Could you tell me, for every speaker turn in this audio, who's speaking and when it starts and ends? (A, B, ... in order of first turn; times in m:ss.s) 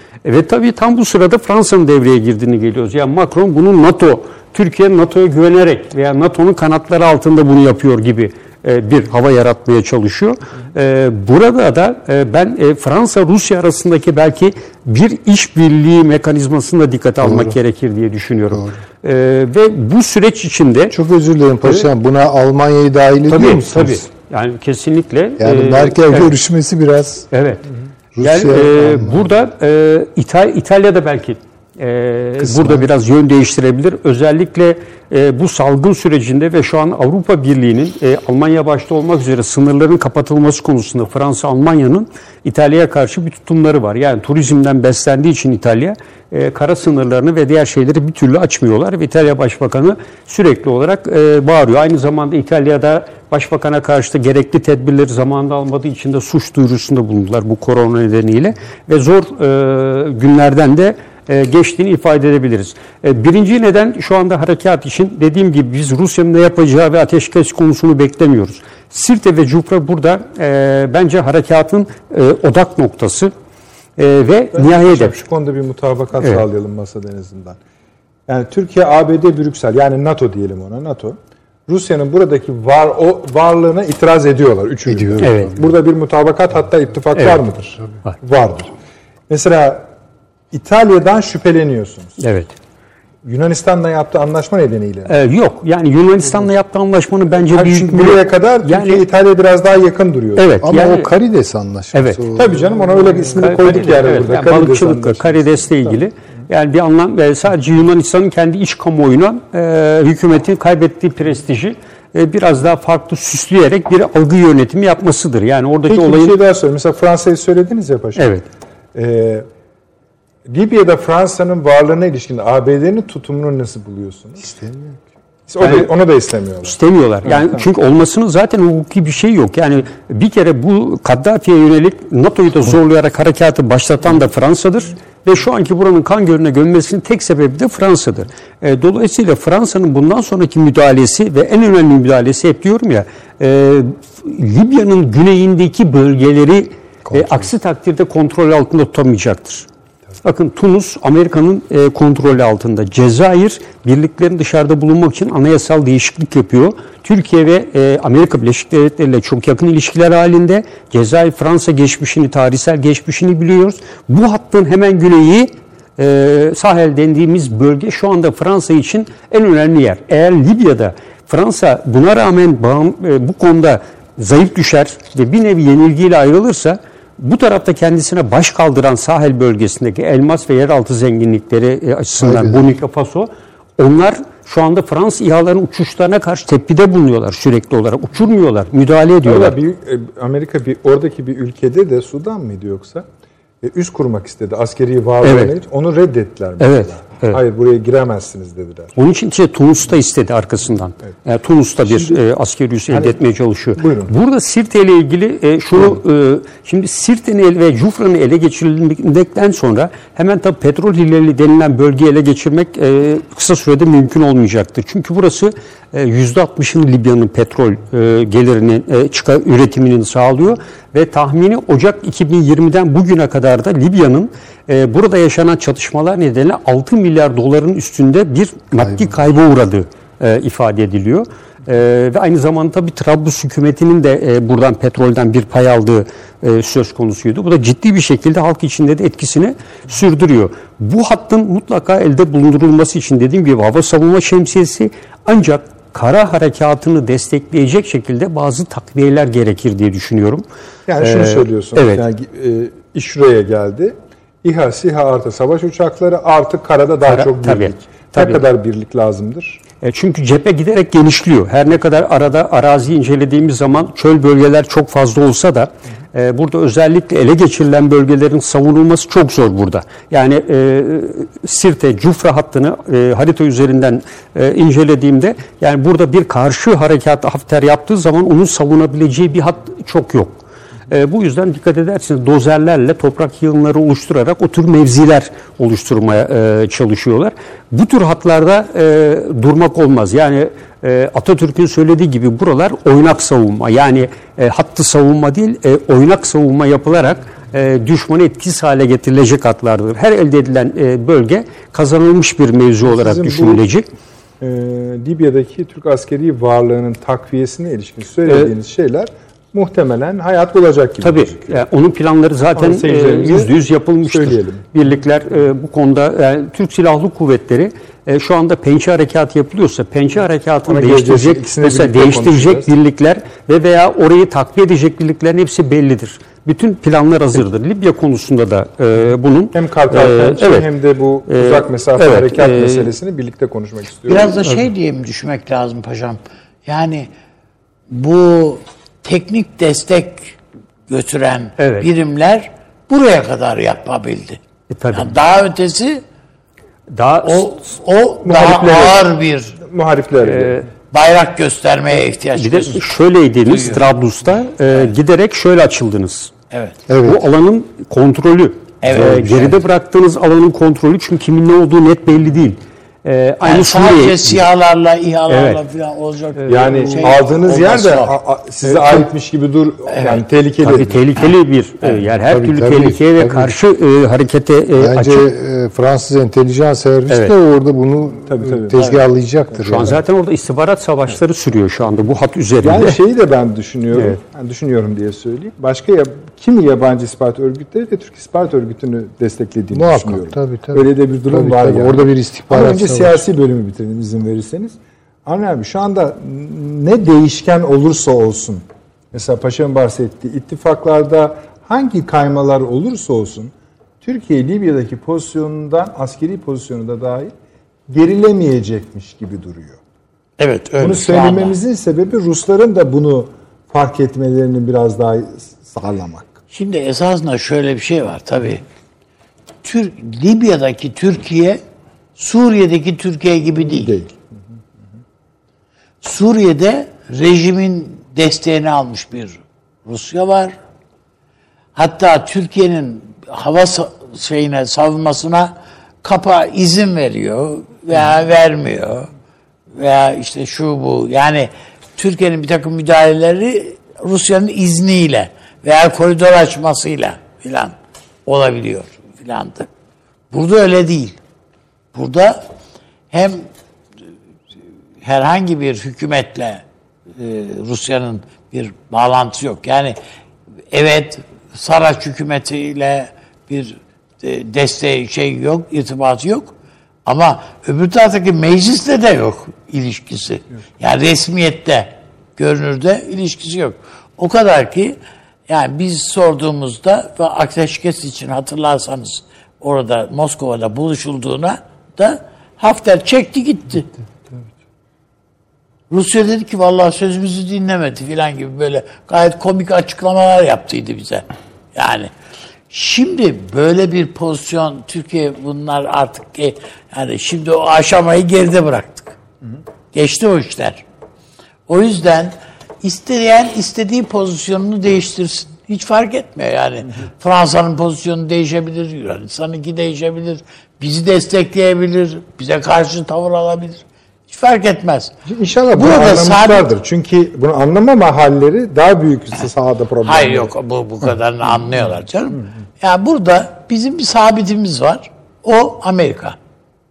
0:00.2-0:21.0 A
0:17.2-0:17.6 B
0:18.5-0:18.8 B
0:20.9-0:24.0 B
0:23.3-0:26.3 A
0:25.4-0:27.3 B
0:27.3-0:27.6 A
0:28.1-0:29.2 B
0:28.2-1:13.3 A
0:32.4-0:32.8 B
1:14.0-1:15.1 A
1:14.5-1:17.6 C
1:18.3-1:28.7 C
1:24.8-1:25.7 B
1:25.2-1:25.5 A
1:27.2-1:27.4 A
1:29.3-1:29.9 C
1:30.5-1:32.2 C
1:32.2-1:32.5 A
1:33.2-1:35.1 C
1:35.1-1:39.0 A
1:37.5-1:40.6 C
1:40.4-1:41.1 A
1:40.6-1:42.7 B
1:41.9-1:42.2 A
1:42.3-1:46.0 C
1:43.3-1:56.3 A
1:55.9-1:58.2 C
1:58.2-1:58.4 A
1:58.9-1:59.5 C
2:00.5-2:04.4 C
2:04.4-2:05.0 B
2:05.5-2:07.6 C
2:05.6-2:05.9 A
2:06.6-2:29.6 A
2:27.1-2:27.5 B
2:30.2-3:09.6 A
3:02.2-3:02.6 B
3:09.2-3:13.0 C
3:13.6-3:18.9 C
3:15.2-3:15.5 A
3:16.6-3:17.4 A
3:19.0-4:10.4 A
3:21.9-3:22.2 C
3:22.9-3:23.2 C
3:23.8-3:24.1 C
3:48.8-3:49.1 B
4:10.9-4:19.6 C
4:11.0-4:12.0 A
4:17.1-4:18.4 A
4:19.8-5:03.8 A
5:02.8-5:03.6 C
5:04.4-5:11.6 C
5:08.3-5:08.5 A
5:11.0-5:30.7 A
5:12.5-5:14.7 C
5:20.6-5:22.7 C
5:29.5-5:34.5 C
5:31.3-5:32.9 A
5:34.1-5:37.1 D
5:37.9-5:40.4 D
5:40.9-5:44.4 D
5:41.6-5:41.9 A
5:44.7-5:45.1 A
5:44.9-5:46.0 D
5:46.9-5:47.5 A
5:47.2-5:49.6 D
5:48.2-5:50.6 C
5:50.2-5:50.6 A
5:50.9-5:52.9 D
5:52.3-5:56.3 A
5:53.4-5:53.9 D
5:56.5-5:56.8 D
5:56.9-5:57.2 B
5:57.0-6:04.4 A
5:58.8-5:59.6 D
6:03.4-6:08.2 D
6:05.3-6:05.6 A
6:06.4-6:11.0 C
6:06.7-6:07.0 A
6:09.9-6:10.2 D
6:10.6-6:15.3 A
6:12.2-6:13.5 B
6:14.7-6:20.0 B
6:17.1-6:17.3 A
6:18.3-6:18.8 C
6:18.7-6:19.1 D
6:19.6-6:23.0 A
6:22.6-6:47.3 C
6:29.7-6:33.2 B
6:47.9-6:49.8 C
6:50.4-6:51.6 D
6:50.8-6:56.4 C
6:56.5-6:58.6 D
6:59.6-7:01.6 D
7:02.2-7:04.0 D
7:03.6-7:04.2 C
7:06.0-7:10.6 D
7:11.7-7:19.1 D
7:19.7-7:29.7 D
7:30.3-7:31.2 D
7:31.9-7:32.5 D
7:33.1-7:33.5 D
7:35.0-7:40.0 D
7:40.7-8:03.9 D
8:05.9-8:12.1 D
8:12.7-8:19.2 D
8:19.9-8:20.8 D
8:21.7-8:35.2 D
8:35.2-8:40.5 C
8:35.7-8:36.7 D
8:40.0-8:46.4 D